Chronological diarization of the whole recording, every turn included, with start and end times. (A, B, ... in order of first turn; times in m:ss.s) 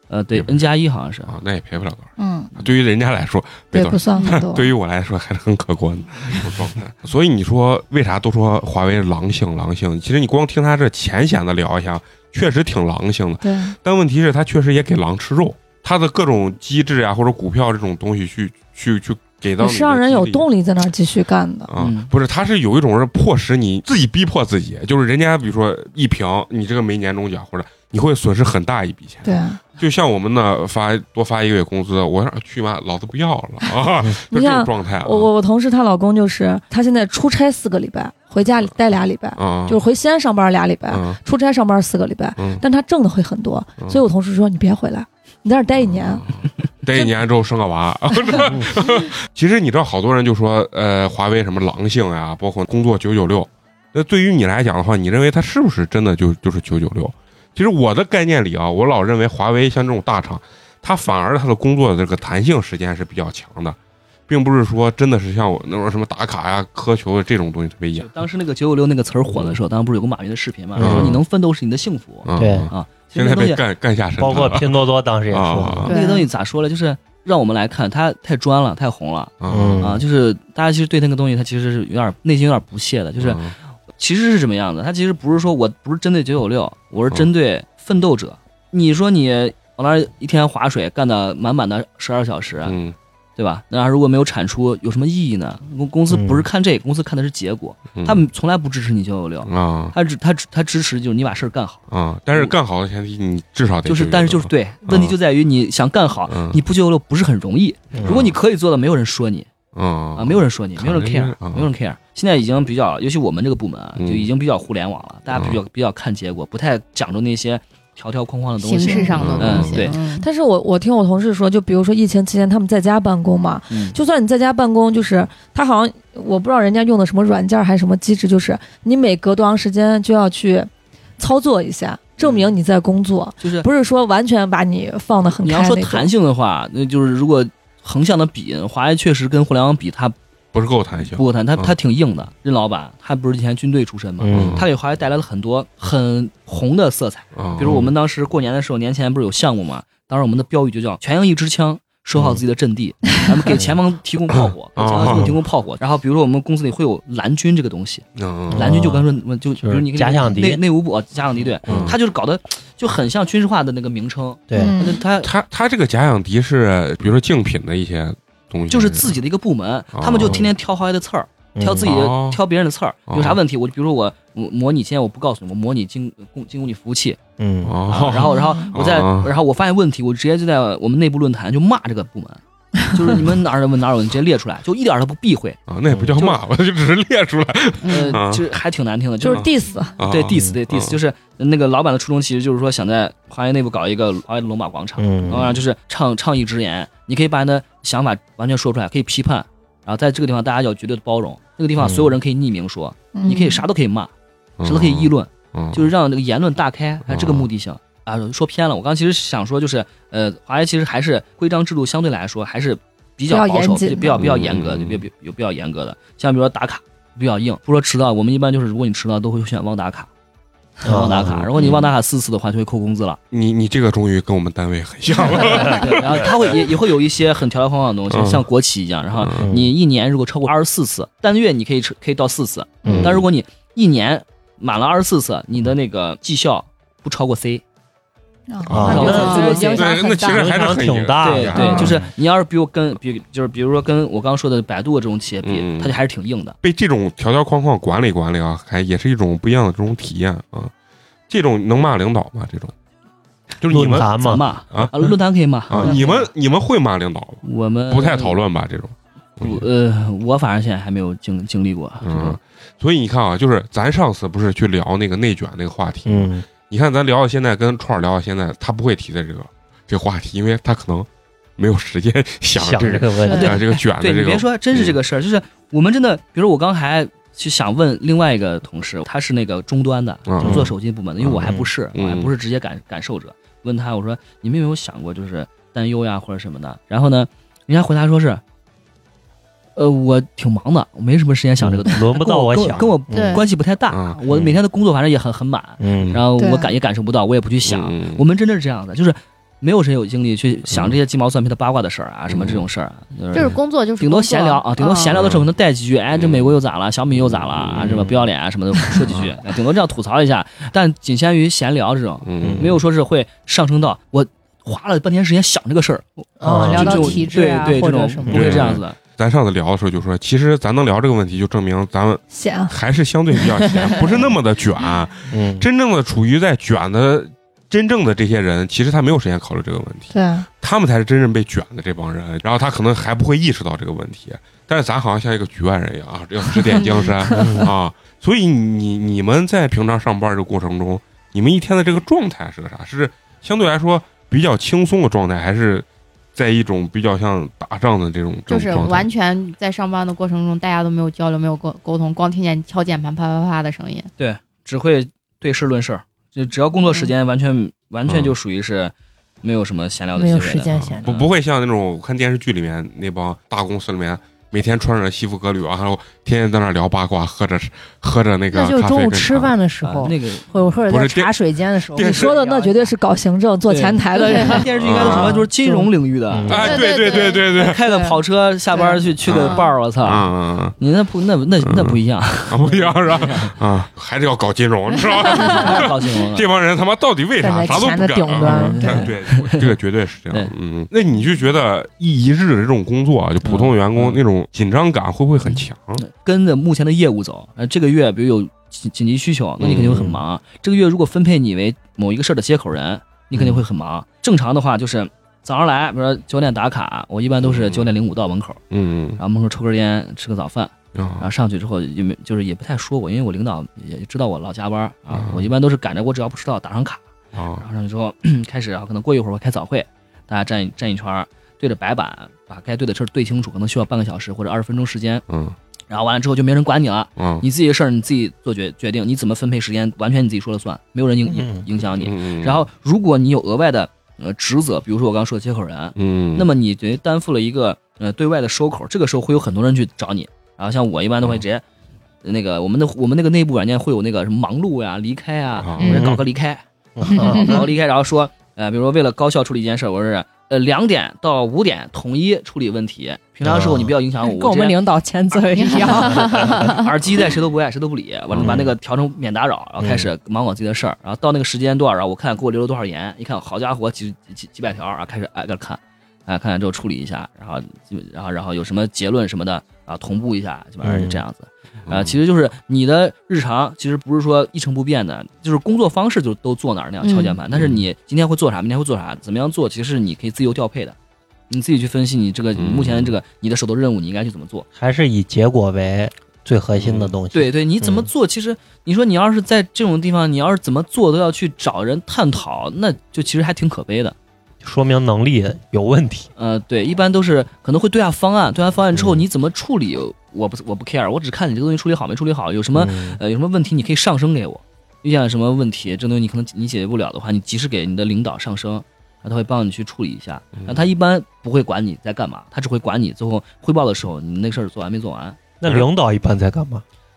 0:00.1-0:01.4 A
0:00.3-0:00.6 B
0:01.3-0:20.5 B
0:02.2-0:02.5 C
0:03.7-0:04.7 C
0:13.4-0:13.8 C
0:19.6-0:21.7 C
0:21.7-0:35.3 B
0:21.8-0:22.1 A
0:29.2-0:29.6 C
0:34.3-0:46.3 C
0:39.4-0:39.8 B
0:40.9-0:41.2 B
0:42.4-0:42.6 B
0:43.8-0:44.0 B
0:45.8-1:03.8 B
1:04.3-1:08.1 B
1:08.0-1:13.6 A
1:09.3-1:09.6 B
1:10.8-1:11.2 D
1:10.8-1:11.2 B
1:12.2-1:14.8 B
1:12.4-1:12.7 D
1:14.2-1:15.9 D
1:15.3-1:15.9 B
1:15.8-1:16.3 E
1:15.9-1:23.4 A
1:19.4-1:19.9 B
1:19.5-1:20.0 D
1:23.2-1:23.6 B
1:24.0-1:32.8 A
1:32.6-1:33.0 B
1:33.4-1:42.6 A
1:36.1-1:36.5 D
1:38.0-1:38.2 B
1:39.4-1:40.0 B
1:41.9-1:45.2 B
1:43.9-1:49.5 A
1:46.3-1:46.6 B
1:47.9-1:48.3 D
1:48.0-1:48.4 B
1:49.7-1:51.7 B
1:50.1-2:00.0 A
1:54.0-1:54.3 B
1:55.3-1:55.6 B
1:58.6-2:00.3 E
1:58.9-1:59.2 C
1:59.1-1:59.8 B
2:00.1-2:16.1 C
2:03.7-2:04.0 A
2:12.2-2:12.5 A
2:13.4-2:13.7 A
2:15.4-2:20.2 A
2:20.5-2:21.7 B
2:21.1-2:45.3 A
2:24.2-2:24.6 D
2:24.3-2:24.7 B
2:27.4-2:27.9 B
2:34.8-2:35.4 B
2:35.0-2:35.3 D
2:38.2-2:38.8 B
2:38.5-2:39.1 D
2:39.6-2:40.6 D
2:41.7-2:42.0 B
2:41.7-2:41.9 D
2:44.5-2:44.8 D
2:44.6-2:45.0 C
2:45.2-2:49.1 B
2:48.7-2:57.2 A
2:49.9-2:50.5 B
2:50.2-2:50.5 D
2:51.6-2:52.0 D
2:51.8-2:52.4 B
2:53.1-2:53.4 B
2:57.4-2:57.8 D
2:57.6-2:59.3 B
2:57.9-3:05.6 A
2:58.3-2:58.7 C
3:05.7-3:08.5 B
3:05.9-3:06.2 D
3:07.8-3:08.2 E
3:07.9-3:24.1 A
3:09.2-3:10.0 C
3:09.3-3:11.0 B
3:10.3-3:10.6 D
3:15.0-3:15.5 D
3:21.8-3:22.1 D
3:23.1-3:23.6 C
3:24.6-3:25.9 B
3:24.6-3:40.1 A
3:27.1-3:27.5 B
3:33.3-3:34.2 C
3:34.2-3:35.0 B
3:40.8-3:41.5 D
3:40.8-3:43.2 A
3:41.5-3:41.9 B
3:43.3-3:46.6 B
3:45.4-3:57.6 A
3:48.1-3:48.4 B
3:49.1-3:49.5 B
3:49.4-3:49.7 D
3:52.8-3:53.2 D
3:52.9-3:53.2 B
3:58.5-4:00.7 C
3:58.7-4:02.1 D
3:58.7-4:02.0 B
3:58.8-3:59.9 A
3:59.2-3:59.6 E
4:01.2-4:06.6 A
4:01.5-4:02.0 C
4:05.4-4:06.0 B
4:06.6-4:10.7 B
4:11.3-4:12.7 B
4:13.6-4:15.1 B
4:13.6-4:14.8 D
4:13.9-4:16.3 A
4:15.7-4:19.7 B
4:17.4-4:18.4 A
4:19.4-4:22.4 A
4:22.0-4:35.0 B
4:26.1-4:26.5 D
4:32.6-4:33.6 D
4:33.3-4:48.4 A
4:40.3-4:40.7 B
4:40.4-4:40.7 D
4:41.2-4:42.3 B
4:41.4-4:41.7 D
4:49.8-5:19.0 A
4:51.6-4:53.4 D
4:53.1-4:53.5 E
4:53.9-4:54.6 B
4:55.8-4:56.2 D
4:56.0-4:56.2 B
4:56.4-4:56.7 C
4:57.6-4:58.2 B
5:00.7-5:01.0 B
5:02.3-5:02.6 B
5:03.3-5:05.2 E
5:05.1-5:05.5 B
5:06.1-5:06.6 B
5:07.1-5:08.2 B
5:09.0-5:09.3 B
5:12.2-5:12.8 B
5:12.4-5:12.7 D
5:16.4-5:18.6 F
5:16.4-5:17.2 D
5:18.3-5:49.1 B
5:18.4-5:18.7 D
5:22.3-5:22.7 C
5:23.4-5:24.0 C
5:25.3-5:25.7 D
5:30.1-5:30.5 C
5:37.3-5:37.7 D
5:48.5-5:54.1 E
5:54.2-6:01.3 A
5:58.1-5:58.4 B
6:00.1-6:01.1 F
6:00.7-6:09.6 B
6:08.5-6:13.0 F
6:09.8-6:10.5 A
6:10.9-6:11.3 B
6:12.0-6:12.2 B
6:12.0-6:14.7 C
6:13.7-6:23.6 A
6:14.2-6:14.6 E
6:14.8-6:15.4 B
6:15.0-6:15.9 F
6:16.3-6:16.8 D
6:16.5-6:17.8 B
6:16.5-6:17.5 E
6:18.7-6:19.7 E
6:19.2-6:20.8 B
6:21.6-6:36.0 B
6:25.4-6:26.5 A
6:27.4-6:29.1 F
6:28.4-6:29.7 A
6:33.4-6:34.2 A
6:35.4-6:48.6 A
6:39.6-6:40.1 B
6:39.8-6:40.1 D
6:47.4-6:47.9 B
6:48.7-6:49.2 B
6:49.2-6:57.0 A
6:51.0-6:51.3 B
6:55.1-6:55.5 B
6:57.3-6:57.6 B
6:57.6-7:05.2 A
7:05.3-7:05.6 B
7:05.9-7:21.6 A
7:07.2-7:07.5 B
7:11.2-7:11.7 D
7:12.0-7:12.6 B
7:16.0-7:16.5 B
7:22.2-7:34.8 A
7:25.6-7:26.0 B
7:25.8-7:26.2 D
7:27.0-7:27.6 D
7:27.1-7:27.7 E
7:33.4-7:33.9 D
7:34.2-7:36.7 F
7:35.3-8:01.0 A
7:35.6-7:37.2 E
7:38.3-7:38.6 B
7:38.4-7:38.7 D
7:39.8-7:40.1 D
7:50.8-7:51.2 D
7:51.9-7:52.1 B
7:57.0-7:57.4 E
7:57.5-7:57.8 B
8:01.5-8:04.7 A
8:02.6-8:03.1 B
8:04.8-8:08.1 D
8:06.8-8:07.1 B
8:07.3-8:14.1 A
8:14.6-8:16.3 D
8:16.4-8:35.4 A
8:19.0-8:19.2 D
8:22.7-8:23.2 D
8:30.6-8:30.9 B
8:35.6-8:36.8 D